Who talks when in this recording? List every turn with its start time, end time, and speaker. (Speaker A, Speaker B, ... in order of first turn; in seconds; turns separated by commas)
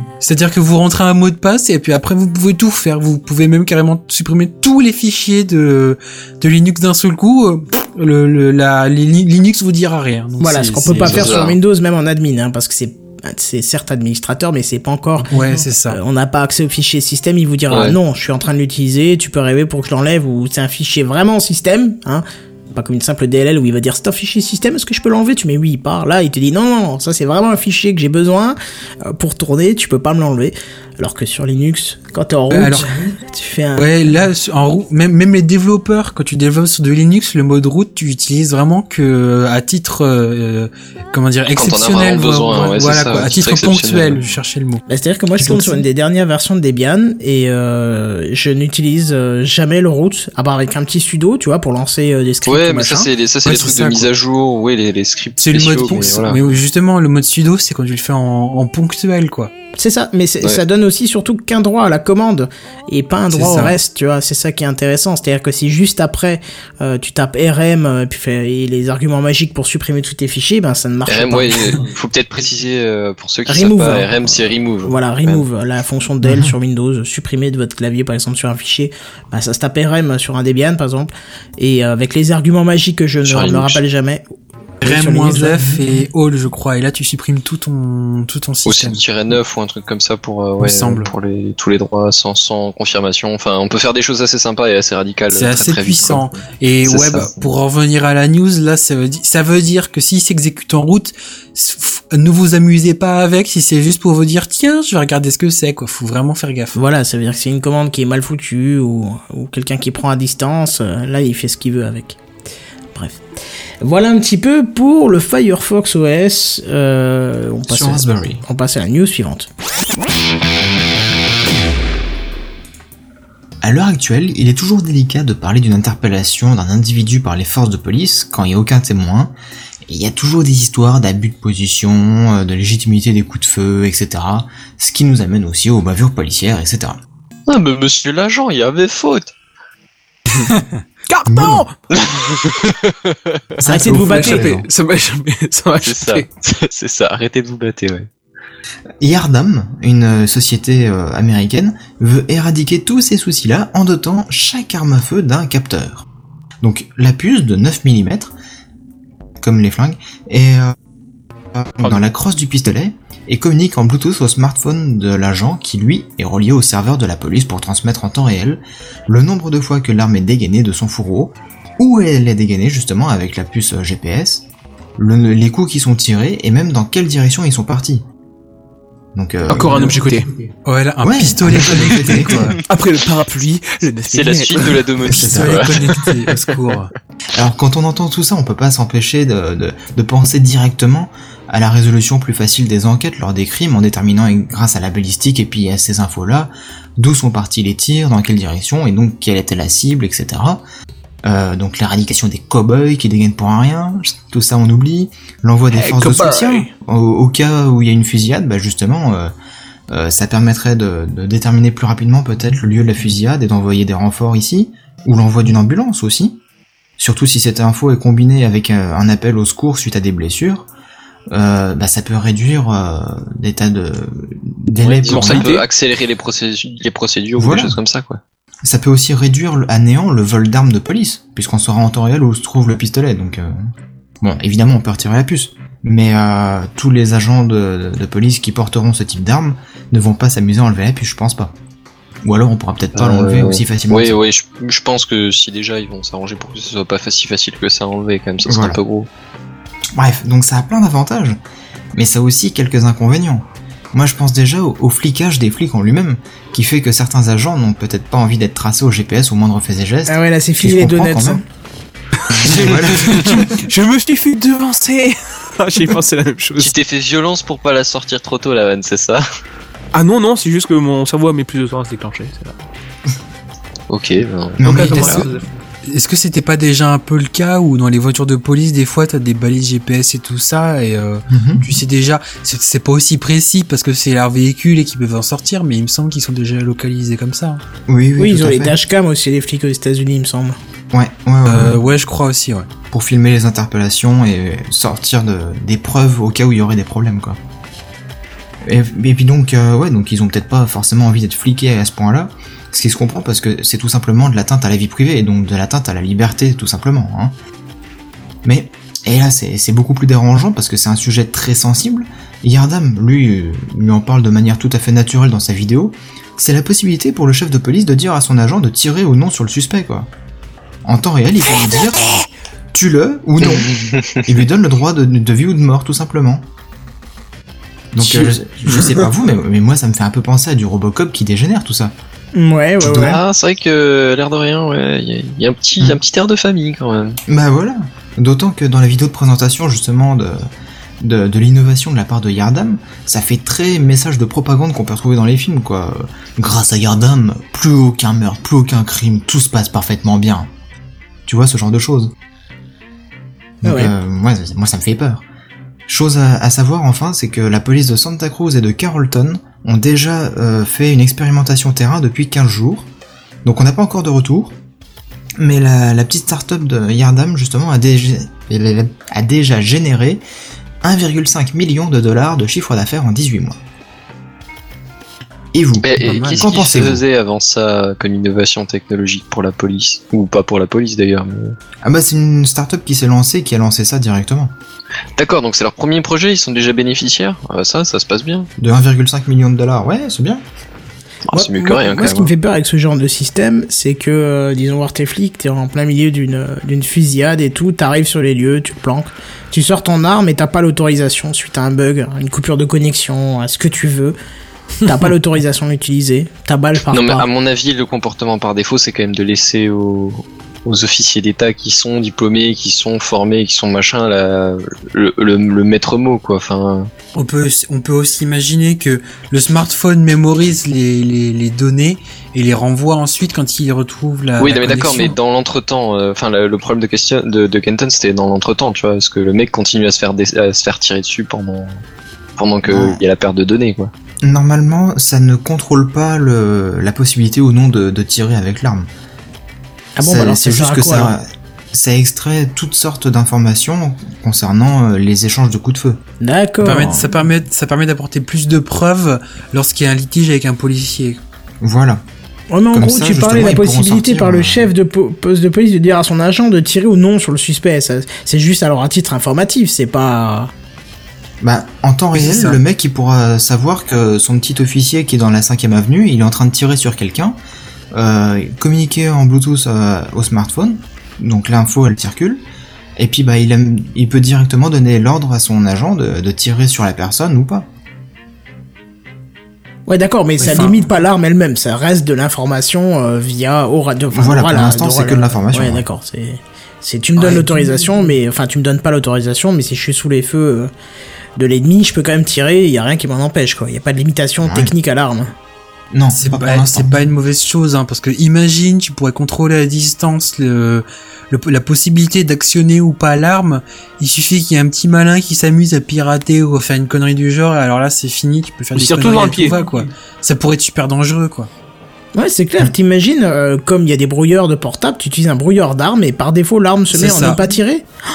Speaker A: 0.2-11.4, Speaker B: 10.4-15.3, Speaker C: 11.0-11.6, Speaker A: 15.2-16.0, Speaker B: 15.9-34.0, Speaker C: 17.7-18.0, Speaker A: 32.5-32.9, Speaker A: 33.8-44.8, Speaker C: 41.5-44.2, Speaker B: 44.9-53.1, Speaker A: 45.4-45.8, Speaker C: 52.5-56.5, Speaker A: 53.5-54.1, Speaker A: 55.4-59.5, Speaker B: 59.8-71.8, Speaker A: 63.3-63.8, Speaker C: 71.1-75.5, Speaker B: 73.5-84.2, Speaker C: 83.2-83.8, Speaker B: 84.8-85.7, Speaker A: 84.8-89.0, Speaker C: 88.7-97.5, Speaker A: 90.6-91.1, Speaker A: 95.3-106.8, Speaker B: 106.8-112.2, Speaker B: 112.9-113.2, Speaker B: 113.8-119.5, Speaker D: 117.7-118.4, Speaker D: 123.6-129.3, Speaker D: 129.9-137.0, Speaker C: 137.5-139.3, Speaker E: 141.1-141.7, Speaker D: 141.3-141.7, Speaker C: 141.9-143.4, Speaker D: 143.6-144.7, Speaker E: 143.7-146.3, Speaker B: 143.7-144.5, Speaker C: 145.8-148.1, Speaker D: 149.0-156.1, Speaker D: 156.6-158.3, Speaker D: 159.4-160.8, Speaker D: 161.6-174.5, Speaker D: 175.0-178.1, Speaker D: 179.2-180.2, Speaker E: 179.5-180.3, Speaker A: 180.7-182.6, Speaker D: 181.0-182.5, Speaker E: 181.7-182.1, Speaker E: 182.7-184.9, Speaker C: 184.1-186.5, Speaker D: 185.1-185.7, Speaker A: 185.1-186.9, Speaker E: 185.8-186.2, Speaker D: 187.3-200.6, Speaker D: 201.2-209.3, Speaker E: 205.7-206.7, Speaker D: 209.9-216.4, Speaker D: 217.0-220.7, Speaker D: 221.3-225.5, Speaker C: 224.8-228.2, Speaker E: 225.1-225.6, Speaker D: 227.4-227.8, Speaker D: 228.6-233.6, Speaker D: 234.2-241.6, Speaker D: 242.2-244.2, Speaker C: 242.9-249.1, Speaker D: 248.4-248.8, Speaker D: 249.9-251.4, Speaker D: 251.9-261.4, Speaker B: 260.1-261.4, Speaker E: 262.2-266.7, Speaker D: 262.4-263.4, Speaker C: 266.6-269.2, Speaker E: 269.9-272.6, Speaker C: 273.9-275.2, Speaker D: 274.6-275.3, Speaker E: 274.6-275.5, Speaker A: 274.7-275.3, Speaker A: 275.9-287.6, Speaker D: 281.3-281.7, Speaker D: 287.9-288.8, Speaker B: 288.2-290.6, Speaker D: 290.9-291.8, Speaker A: 291.5-292.7, Speaker D: 292.9-297.4, Speaker D: 298.6-307.4, Speaker D: 308.4-320.1, Speaker D: 320.9-326.4, Speaker C: 323.6-324.2, Speaker D: 327.9-331.9, Speaker B: 332.4-333.2, Speaker D: 332.8-333.2, Speaker C: 333.0-337.2, Speaker D: 337.3-340.5, Speaker D: 341.0-350.5, Speaker D: 351.3-352.1, Speaker D: 353.6-355.2, Speaker B: 353.6-353.9, Speaker D: 355.9-362.9, Speaker D: 363.4-364.6, Speaker D: 365.4-370.2, Speaker D: 370.8-373.6, Speaker D: 375.5-377.0, Speaker C: 375.8-381.6, Speaker A: 376.0-376.5, Speaker D: 381.8-384.5, Speaker C: 385.2-388.5, Speaker D: 388.6-390.4, Speaker C: 391.3-392.3, Speaker B: 391.3-404.2, Speaker B: 404.8-407.3, Speaker C: 406.9-416.9, Speaker A: 417.1-425.1, Speaker C: 424.4-431.8, Speaker C: 432.4-433.9, Speaker D: 432.6-433.0, Speaker D: 434.2-438.9, Speaker B: 440.0-441.2, Speaker D: 440.0-446.0, Speaker B: 446.2-447.1, Speaker A: 446.6-451.2, Speaker D: 451.6-452.0, Speaker B: 452.5-460.5, Speaker D: 452.7-454.7, Speaker D: 461.4-467.4, Speaker A: 462.1-462.6, Speaker D: 467.9-472.4, Speaker D: 473.0-477.7, Speaker B: 479.9-490.7, Speaker A: 480.5-480.8, Speaker D: 484.1-485.9, Speaker B: 491.4-495.3, Speaker D: 494.4-494.7, Speaker D: 495.9-497.0, Speaker A: 496.1-511.5, Speaker E: 508.8-509.6, Speaker B: 512.1-517.9, Speaker A: 516.9-517.4